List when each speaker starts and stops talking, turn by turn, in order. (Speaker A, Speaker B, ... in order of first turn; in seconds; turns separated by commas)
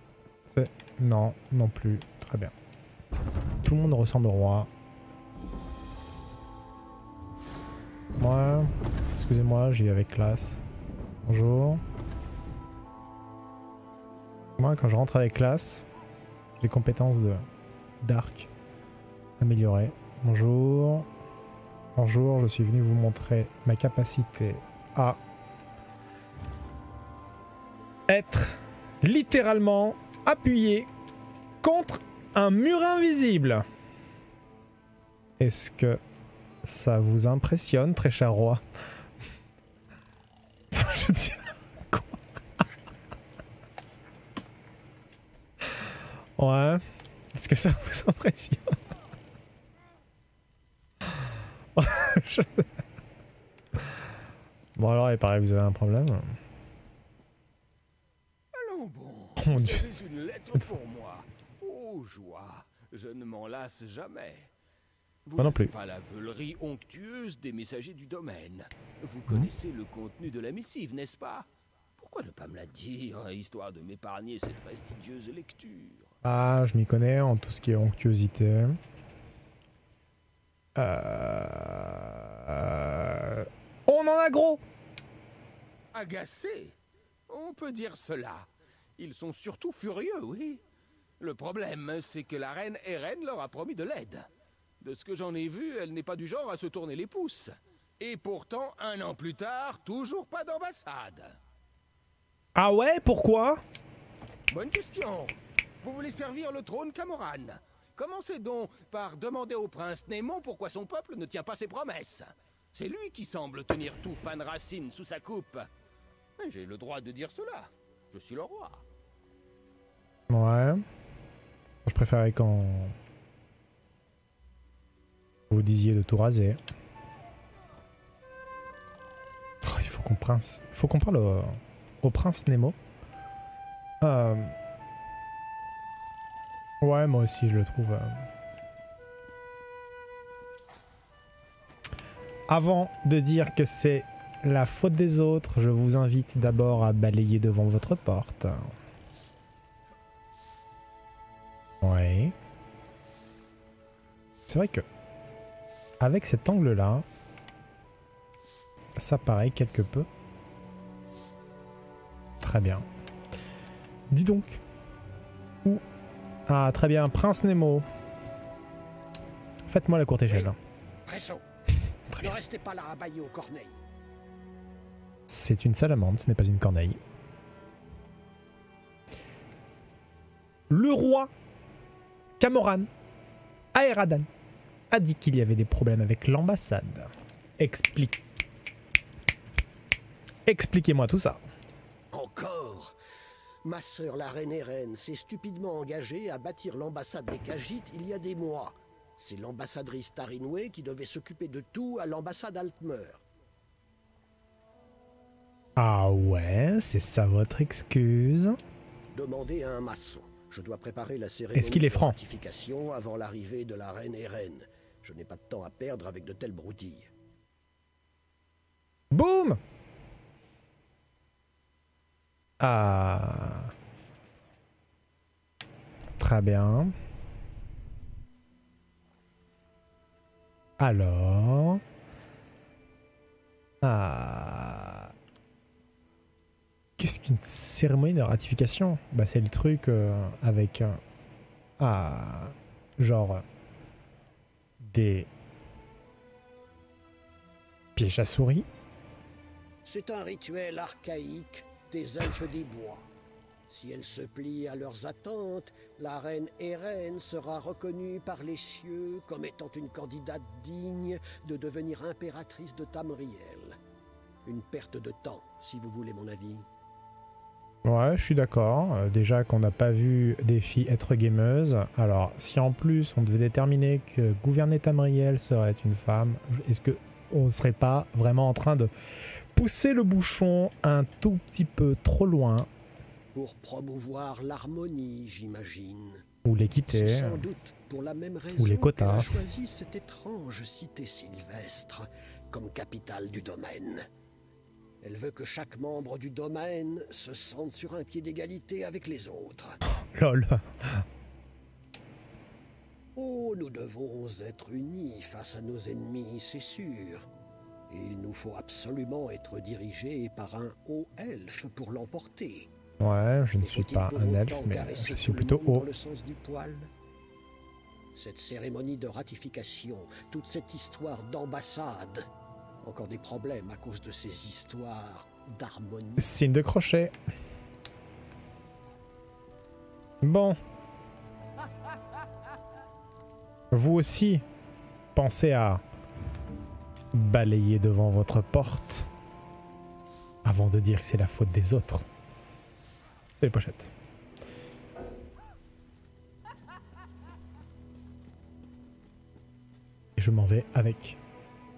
Speaker A: 0.5-2.5, Speaker A: 3.6-4.7, Speaker A: 8.2-10.6, Speaker A: 11.2-11.8, Speaker A: 14.6-15.8, Speaker A: 16.6-17.4, Speaker A: 18.0-18.5, Speaker A: 19.4-21.1, Speaker A: 22.0-25.2, Speaker A: 28.1-30.9, Speaker A: 31.6-33.7, Speaker A: 35.4-36.0, Speaker A: 36.6-38.6, Speaker A: 40.7-42.2, Speaker A: 46.4-48.8, Speaker A: 51.8-52.7, Speaker A: 54.8-56.4, Speaker B: 58.5-64.5, Speaker A: 59.4-59.9, Speaker B: 65.3-76.1, Speaker A: 65.4-65.7, Speaker A: 76.2-78.8, Speaker A: 80.8-84.6, Speaker B: 85.9-86.8, Speaker B: 87.3-90.6, Speaker B: 91.2-94.3, Speaker B: 94.8-101.4, Speaker A: 102.5-103.6, Speaker B: 104.5-115.7, Speaker B: 116.4-118.8, Speaker A: 120.3-120.8, Speaker A: 121.8-123.0, Speaker A: 125.5-126.6, Speaker A: 129.6-132.8, Speaker A: 134.0-134.5, Speaker A: 136.8-138.2, Speaker A: 142.5-148.7, Speaker A: 151.8-152.3, Speaker A: 154.5-154.8, Speaker A: 156.0-157.1, Speaker A: 159.0-160.1, Speaker A: 162.4-162.9, Speaker A: 164.1-164.6, Speaker A: 166.5-167.9, Speaker A: 169.7-170.6, Speaker C: 171.1-171.4, Speaker C: 172.2-173.8, Speaker A: 175.3-177.0, Speaker A: 180.7-181.3, Speaker A: 182.4-182.9, Speaker A: 183.7-184.3, Speaker A: 184.9-188.2, Speaker A: 190.5-191.4, Speaker C: 192.1-193.0, Speaker C: 193.6-203.2, Speaker A: 205.8-208.6, Speaker C: 209.1-217.1, Speaker A: 211.5-212.2, Speaker A: 219.1-219.6, Speaker A: 222.6-223.7, Speaker A: 226.2-226.9, Speaker A: 230.8-231.8, Speaker A: 233.8-235.1, Speaker A: 237.0-241.0, Speaker A: 241.8-243.4, Speaker A: 244.8-245.3, Speaker A: 248.0-248.7, Speaker C: 249.8-253.1, Speaker C: 253.7-263.8, Speaker C: 264.4-266.7, Speaker A: 267.9-278.9, Speaker A: 279.5-282.7, Speaker C: 283.3-286.2, Speaker A: 286.4-287.4, Speaker C: 286.9-294.1, Speaker A: 288.6-289.4, Speaker C: 295.0-299.8, Speaker A: 299.9-301.0, Speaker C: 303.2-307.2, Speaker C: 307.9-312.7, Speaker A: 313.0-315.9, Speaker C: 313.6-316.9, Speaker C: 318.1-322.3, Speaker C: 322.8-326.3, Speaker A: 326.2-327.1, Speaker A: 330.2-330.6, Speaker A: 333.7-334.4, Speaker A: 335.1-335.8, Speaker A: 337.1-339.1, Speaker A: 340.4-342.1, Speaker A: 343.4-343.9, Speaker A: 350.2-351.2